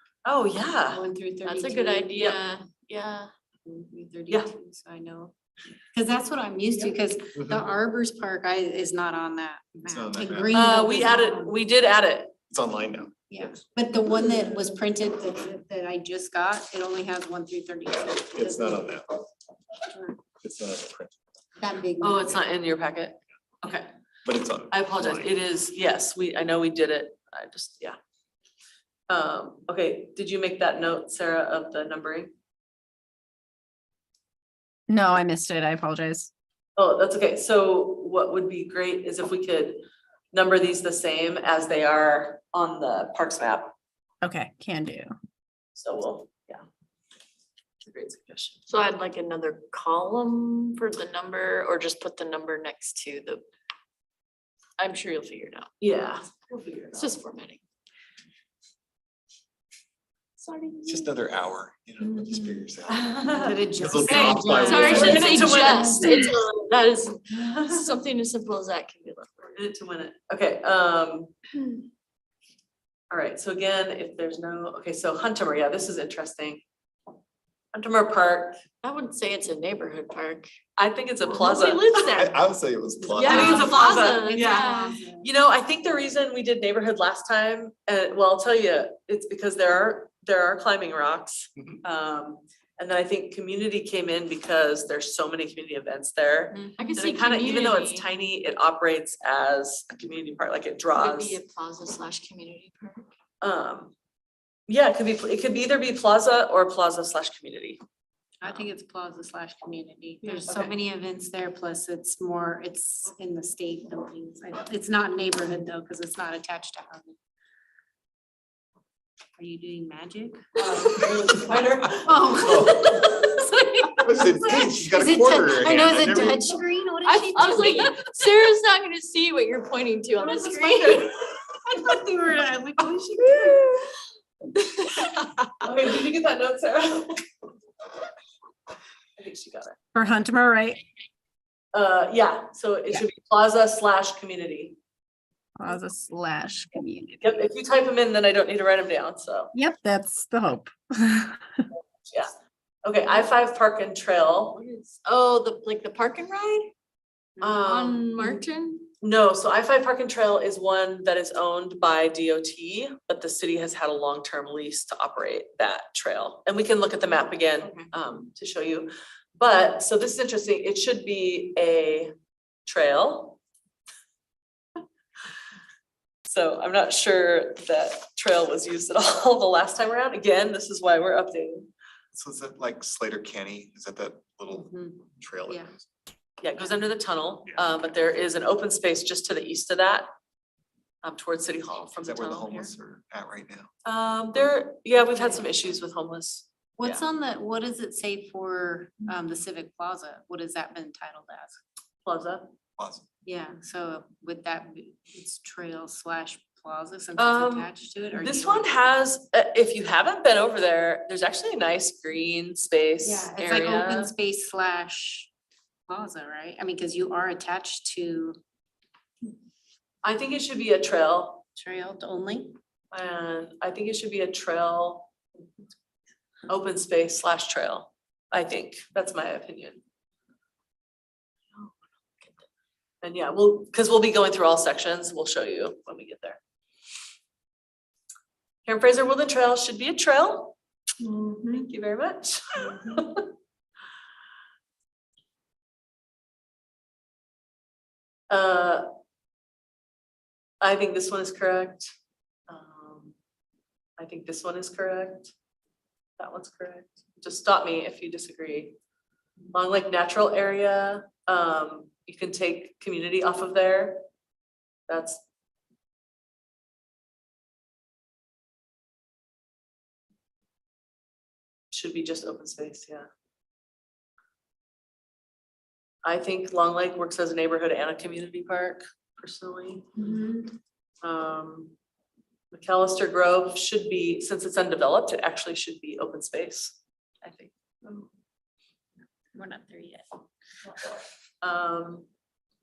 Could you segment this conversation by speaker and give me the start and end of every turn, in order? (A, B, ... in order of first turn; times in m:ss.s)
0:00.2-0:01.0 A
0:00.9-0:02.3 B
0:01.4-0:03.3 C
0:03.6-0:05.3 B
0:05.9-0:11.6 B
0:07.3-0:07.6 D
0:09.9-0:10.6 D
0:10.5-0:12.3 A
0:12.5-0:13.1 D
0:13.3-0:18.9 B
0:18.3-0:19.0 D
0:20.4-0:21.1 D
0:21.6-0:22.4 B
0:22.0-0:23.9 A
0:24.2-0:25.3 D
0:24.7-0:28.0 A
0:29.1-0:32.3 A
0:34.9-0:36.3 E
0:36.8-0:43.7 A
0:44.2-0:45.2 E
0:45.8-0:46.6 A
0:47.8-0:48.6 A
0:48.7-0:53.4 C
0:54.8-0:55.7 C
0:55.8-0:57.2 A
0:56.9-0:57.6 C
1:00.4-1:01.1 C
1:00.9-1:03.1 D
1:02.9-1:06.2 A
1:03.3-1:06.3 B
1:03.7-1:05.5 D
1:04.6-1:09.6 C
1:07.4-1:07.9 A
1:09.6-1:11.3 A
1:13.1-1:16.6 A
1:17.7-1:18.6 A
1:18.8-1:20.5 C
1:20.8-1:22.2 A
1:21.2-1:22.3 C
1:22.1-1:23.7 D
1:23.1-1:25.0 C
1:23.2-1:41.4 A
1:23.2-1:25.3 B
1:36.8-1:38.0 C
1:40.9-1:43.1 C
1:43.4-1:43.9 A
1:44.7-1:47.8 A
1:48.4-1:57.2 B
1:50.3-1:50.7 A
1:59.4-2:00.7 B
2:00.6-2:03.0 A
2:02.0-2:07.9 B
2:02.4-2:03.0 D
2:04.0-2:06.5 D
2:06.0-2:06.4 C
2:07.0-2:11.1 C
2:10.2-2:13.8 B
2:10.5-2:11.1 A
2:14.8-2:15.1 C
2:15.6-2:17.2 A
2:19.2-2:19.8 A
2:19.9-2:20.8 E
2:20.0-2:20.6 B
2:21.7-2:24.8 A
2:25.6-2:27.1 E
2:27.2-2:29.5 A
2:29.5-2:31.4 E
2:32.1-2:32.3 A
2:32.8-2:34.6 A
2:34.5-2:36.7 C
2:37.4-2:38.4 A
2:37.4-2:38.9 C
2:39.0-2:52.1 A
2:47.6-2:47.9 C
2:52.6-2:53.4 A
2:56.2-3:01.7 A
3:02.1-3:05.8 D
3:04.5-3:05.7 B
3:06.4-3:10.1 A
3:07.4-3:07.9 D
3:11.0-3:12.7 A
3:12.0-3:13.7 D
3:13.8-3:17.0 A
3:16.8-3:21.6 B
3:22.0-3:22.5 A
3:22.8-3:23.0 D
3:23.2-3:28.9 B
3:27.2-3:34.1 A
3:33.0-3:35.3 B
3:35.9-3:38.4 B
3:40.0-3:41.4 A
3:41.6-3:42.5 B
3:42.9-3:45.1 A
3:46.5-3:49.8 A
3:51.5-3:52.4 C
3:53.0-3:56.4 A
3:58.6-4:00.5 A
4:01.0-4:01.6 C
4:01.5-4:03.2 A
4:08.3-4:08.8 A
4:10.6-4:11.9 A
4:12.5-4:13.1 A
4:14.0-4:15.3 A
4:16.2-4:18.7 A
4:19.5-4:24.0 A
4:24.9-4:25.2 A
4:31.7-4:33.1 A
4:36.0-4:39.9 A
4:41.0-4:41.7 A
4:42.5-4:47.5 A
4:49.4-4:50.0 B
4:51.4-4:52.0 A